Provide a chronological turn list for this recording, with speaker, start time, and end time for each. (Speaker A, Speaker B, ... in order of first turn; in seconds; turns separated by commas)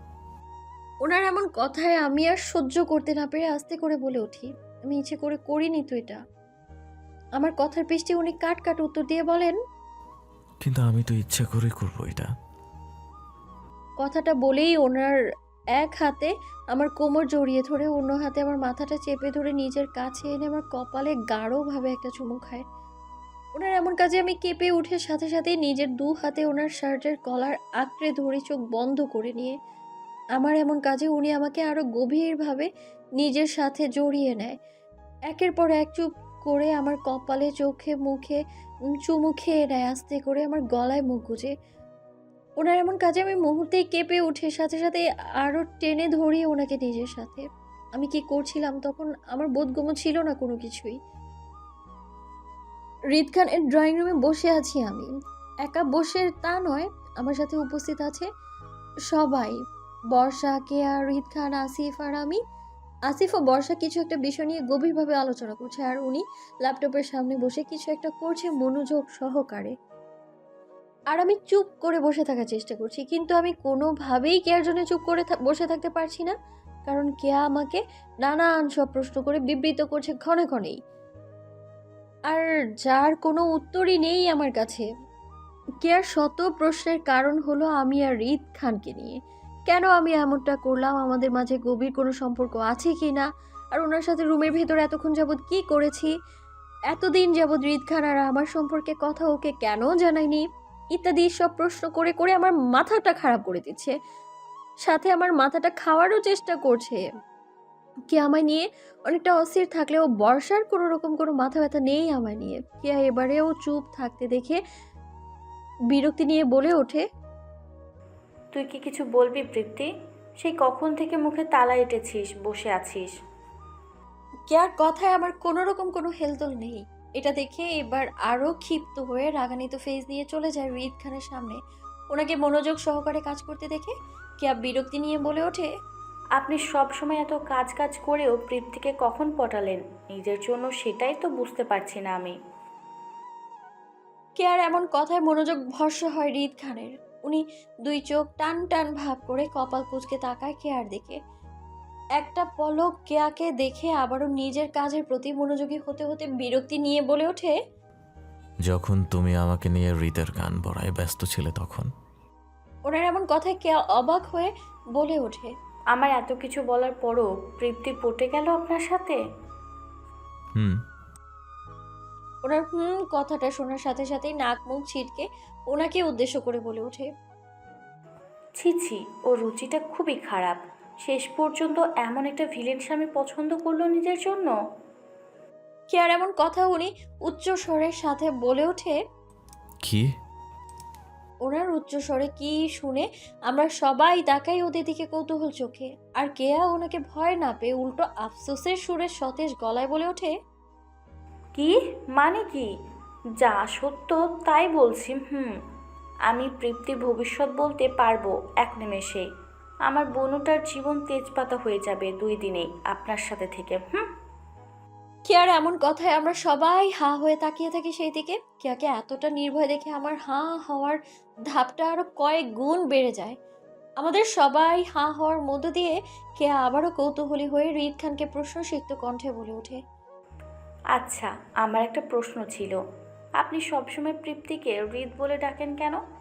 Speaker A: 1.1-6.2, Speaker A: 7.4-9.6, Speaker B: 10.6-12.3, Speaker A: 14.0-15.2, Speaker A: 15.8-22.6, Speaker A: 23.6-29.6, Speaker A: 30.4-32.7, Speaker A: 33.2-34.6, Speaker A: 35.3-38.4, Speaker A: 39.0-41.5, Speaker A: 42.6-47.4, Speaker A: 48.0-51.0, Speaker A: 53.1-55.1, Speaker A: 55.7-58.3, Speaker A: 59.1-59.6, Speaker A: 60.1-62.4, Speaker A: 63.1-69.7, Speaker A: 71.1-76.3, Speaker A: 76.9-80.8, Speaker A: 82.3-84.8, Speaker A: 85.8-89.2, Speaker A: 89.7-96.1, Speaker A: 96.9-100.4, Speaker A: 101.0-103.9, Speaker A: 104.9-107.0, Speaker A: 108.1-114.6, Speaker A: 115.9-117.0, Speaker C: 118.5-119.9, Speaker C: 120.4-123.1, Speaker A: 124.5-131.6, Speaker A: 132.1-135.7, Speaker C: 136.4-142.4, Speaker A: 144.4-151.2, Speaker A: 152.2-157.6, Speaker B: 158.7-161.9, Speaker A: 162.9-165.5, Speaker C: 165.9-169.2, Speaker B: 170.6-170.8, Speaker A: 172.5-177.1, Speaker C: 178.6-184.6, Speaker A: 185.9-189.0, Speaker B: 189.8-190.1, Speaker A: 191.4-200.3, Speaker C: 201.6-202.7, Speaker C: 203.4-205.6, Speaker C: 206.3-209.3, Speaker C: 209.9-214.1, Speaker A: 215.3-221.0, Speaker A: 221.5-223.4, Speaker A: 224.0-229.8, Speaker C: 230.9-232.8, Speaker C: 233.4-236.0